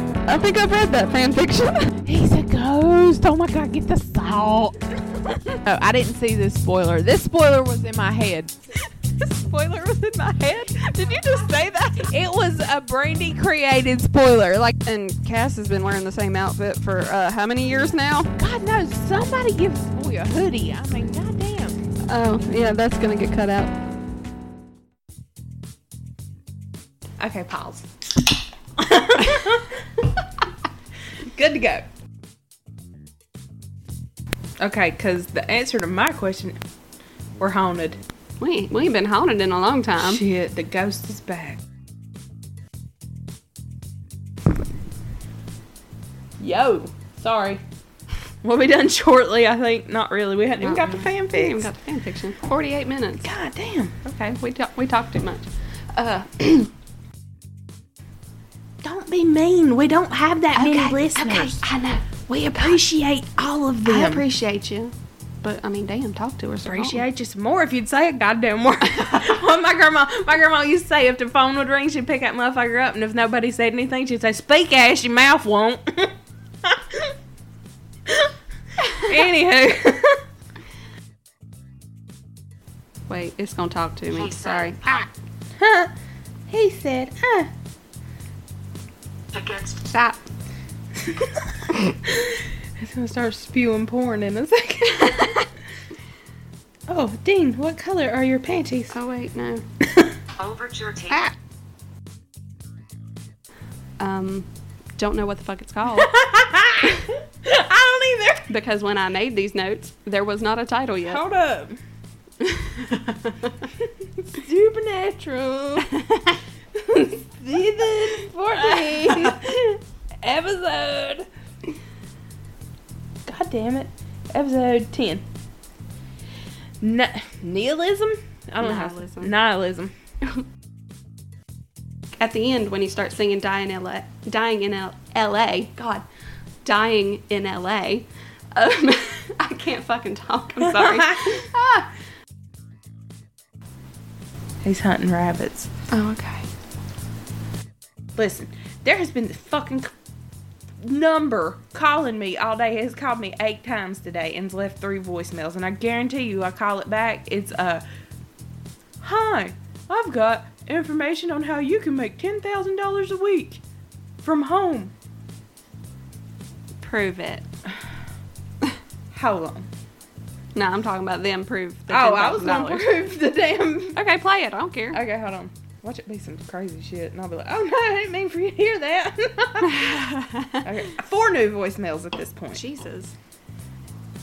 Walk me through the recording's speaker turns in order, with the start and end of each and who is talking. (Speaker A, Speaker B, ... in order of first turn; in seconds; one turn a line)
Speaker A: 0.3-2.0
Speaker B: 2.0-4.8
Speaker B: 5.6-8.6
Speaker B: 9.4-14.8
Speaker A: 10.8-11.5
Speaker A: 14.8-18.3
Speaker B: 18.4-21.8
Speaker A: 22.1-23.7
Speaker B: 27.2-27.9
Speaker B: 28.8-29.8
Speaker B: 31.3-31.9
Speaker B: 34.6-36.6
Speaker B: 37.4-38.0
Speaker A: 38.4-40.2
Speaker B: 40.0-41.6
Speaker B: 46.4-47.6
Speaker B: 48.4-51.7
Speaker A: 50.6-53.3
Speaker B: 53.2-54.1
Speaker A: 54.1-56.7
Speaker B: 58.8-61.6
Speaker A: 60.5-62.8
Speaker B: 62.6-64.2
Speaker A: 63.9-67.0
Speaker B: 66.7-77.1
Speaker B: 78.9-80.2
Speaker A: 83.1-85.1
Speaker C: 84.1-85.1
Speaker B: 85.6-85.9
Speaker B: 86.5-87.5
Speaker C: 89.3-89.6
Speaker A: 89.5-90.2
Speaker B: 92.8-95.3
Speaker A: 95.0-95.5
Speaker B: 96.9-99.0
Speaker A: 98.9-99.6
Speaker C: 100.4-101.3
Speaker A: 104.0-106.1
Speaker B: 106.0-108.5
Speaker A: 108.5-111.2
Speaker B: 111.1-111.8
Speaker A: 112.5-113.3
Speaker B: 114.2-115.9
Speaker A: 115.9-116.3
Speaker B: 116.8-121.3
Speaker A: 118.5-119.4
Speaker B: 123.3-125.2
Speaker B: 126.8-129.9
Speaker A: 128.6-129.3
Speaker A: 132.2-136.1
Speaker A: 136.7-141.9
Speaker B: 141.0-141.4
Speaker B: 144.6-145.7
Speaker A: 145.9-146.5
Speaker B: 148.2-149.9
Speaker B: 150.8-157.8
Speaker B: 159.0-163.6
Speaker B: 164.2-164.9
Speaker A: 166.8-167.5
Speaker B: 169.1-169.7
Speaker A: 170.6-172.9
Speaker B: 171.9-174.0
Speaker A: 174.0-175.0
Speaker B: 174.9-179.9
Speaker A: 179.6-180.7
Speaker B: 180.6-182.6
Speaker A: 182.5-183.2